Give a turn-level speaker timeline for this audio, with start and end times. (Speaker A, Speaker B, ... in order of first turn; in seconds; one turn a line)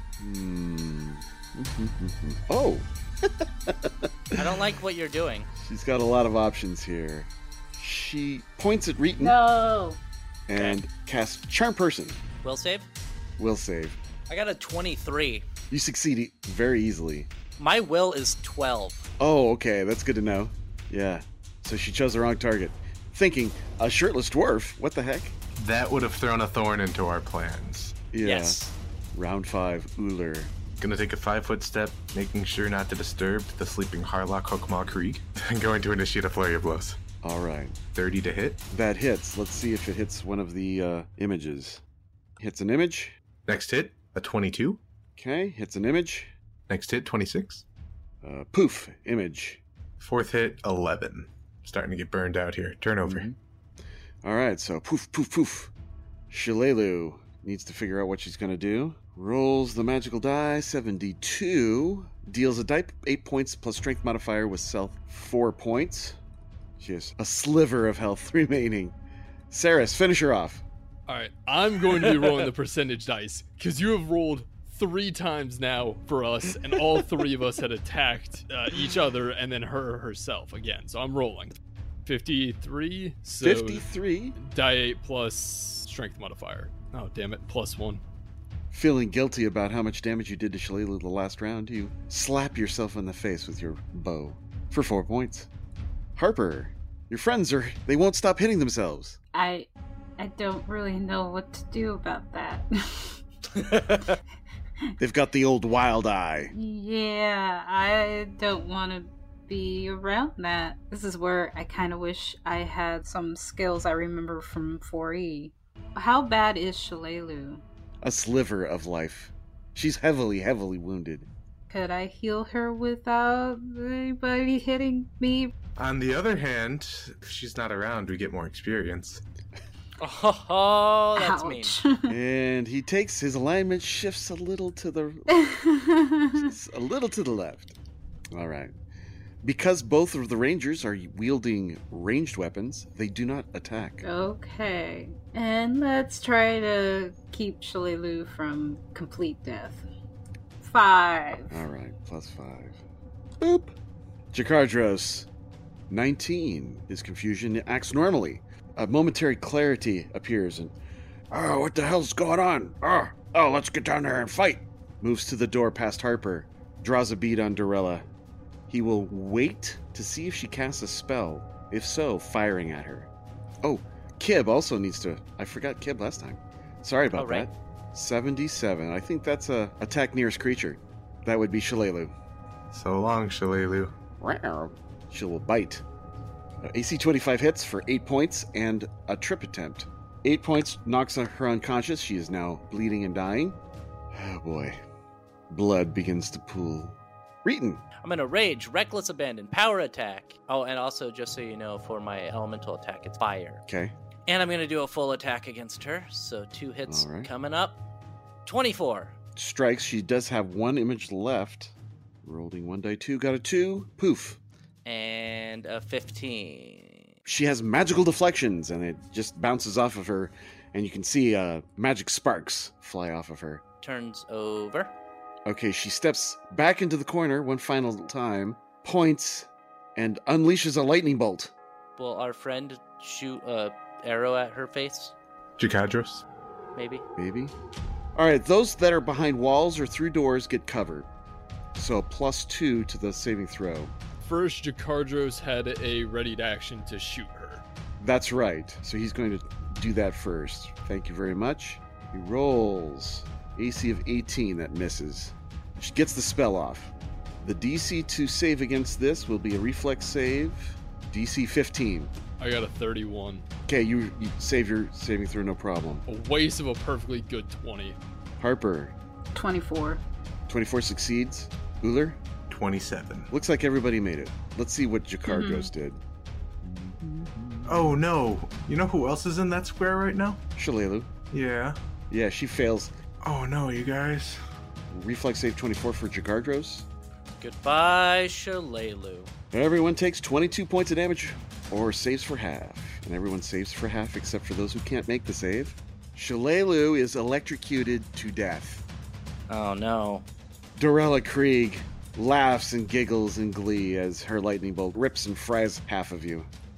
Speaker A: 0.2-4.4
Speaker B: 4.3-5.5
Speaker A: 5.5-9.4
Speaker C: 9.2-10.0
Speaker A: 10.5-12.2
Speaker B: 12.4-12.9
Speaker A: 13.4-14.0
Speaker B: 14.3-15.4
Speaker A: 15.7-17.3
Speaker B: 17.6-19.1
Speaker A: 19.2-25.4
Speaker D: 25.6-27.9
Speaker A: 28.1-30.5
Speaker B: 28.2-28.7
Speaker D: 30.8-37.0
Speaker A: 37.2-37.8
Speaker D: 37.9-38.6
Speaker A: 38.7-41.8
Speaker A: 42.4-43.1
Speaker D: 43.5-44.8
Speaker A: 45.1-46.3
Speaker D: 46.7-47.6
Speaker A: 48.2-49.6
Speaker D: 50.0-53.3
Speaker A: 53.0-53.4
Speaker A: 54.2-55.7
Speaker A: 56.3-66.2
Speaker A: 66.8-69.0
Speaker A: 69.5-70.6
Speaker E: 71.1-83.8
Speaker A: 83.4-84.3
Speaker E: 84.4-88.0
Speaker A: 88.7-95.5
Speaker A: 96.2-99.2
Speaker C: 99.3-103.2
Speaker B: 103.5-104.1
Speaker A: 105.0-106.5
Speaker C: 106.5-117.6
Speaker A: 118.0-121.3
Speaker C: 121.7-125.5
Speaker D: 125.8-129.2
Speaker B: 130.0-131.8
Speaker C: 131.2-132.2
Speaker A: 132.1-135.3
Speaker C: 135.3-136.5
Speaker A: 136.3-137.8
Speaker A: 138.3-138.7
Speaker A: 139.4-144.0
Speaker C: 144.0-149.8
Speaker C: 150.6-151.6
Speaker A: 151.5-152.8
Speaker A: 153.4-153.7
Speaker A: 154.3-155.3
Speaker A: 155.9-160.8
Speaker A: 161.3-168.1
Speaker A: 168.7-173.1
Speaker A: 173.6-182.1
Speaker B: 177.2-177.5
Speaker D: 182.7-183.9
Speaker A: 184.2-185.8
Speaker A: 186.6-193.6
Speaker A: 194.1-194.8
Speaker A: 195.5-197.8
Speaker B: 198.0-203.6
Speaker A: 203.7-203.9
Speaker B: 204.3-207.8
Speaker A: 206.9-207.3
Speaker B: 208.4-209.1
Speaker A: 209.3-214.4
Speaker B: 214.8-217.1
Speaker A: 217.2-223.6
Speaker B: 223.8-224.9
Speaker A: 225.4-231.5
Speaker B: 232.0-235.1
Speaker D: 235.6-236.2
Speaker B: 236.7-237.0
Speaker A: 237.2-237.5
Speaker A: 238.1-241.1
Speaker A: 241.7-243.9
Speaker E: 244.2-247.6
Speaker A: 248.0-262.1
Speaker E: 262.4-263.4
Speaker A: 263.7-266.0
Speaker E: 266.1-268.0
Speaker A: 268.4-268.9
Speaker C: 269.3-270.0
Speaker A: 270.5-272.2
Speaker D: 272.5-273.3
Speaker A: 273.3-276.0
Speaker C: 275.3-275.7
Speaker A: 276.6-278.0
Speaker D: 277.7-280.4
Speaker A: 280.6-281.1
Speaker D: 281.3-281.8
Speaker A: 282.1-282.9
Speaker D: 283.2-284.4
Speaker A: 284.9-286.9
Speaker B: 287.4-289.3
Speaker A: 289.5-298.8
Speaker B: 299.5-300.3
Speaker A: 300.8-306.5